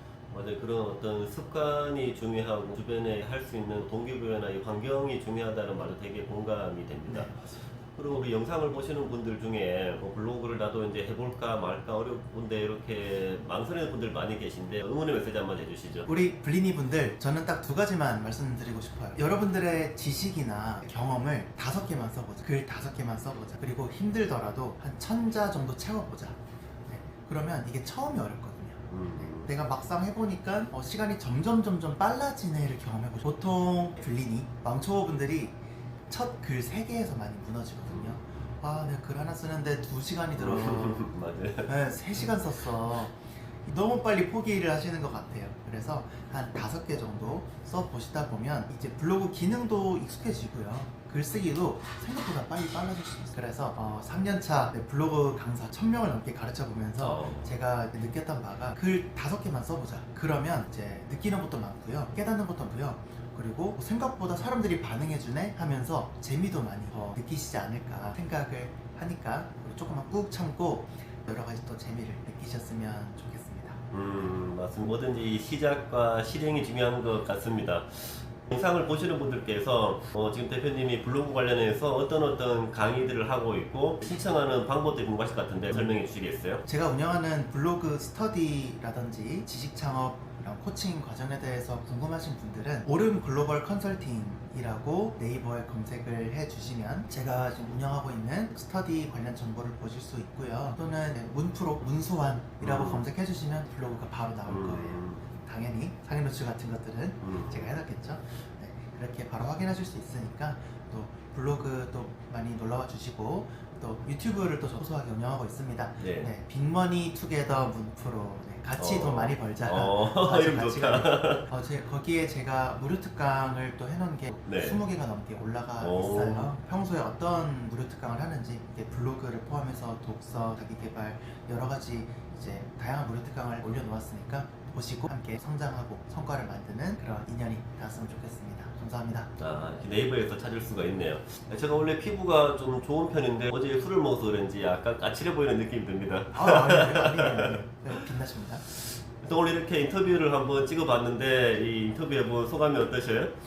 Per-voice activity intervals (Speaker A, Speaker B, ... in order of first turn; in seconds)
Speaker A: 0.3-7.3, 7.9-16.1, 28.9-29.5, 37.9-38.5, 40.4-42.3, 57.0-57.6, 73.9-86.6, 102.6-103.0, 104.5-105.3, 107.2-107.7, 116.0-116.3, 118.8-121.5, 124.5-124.8, 125.8-126.5, 139.4-147.6, 148.7-153.3
Speaker B: 7.0-7.7, 16.1-41.1, 41.6-73.8, 86.6-139.3, 146.3-148.6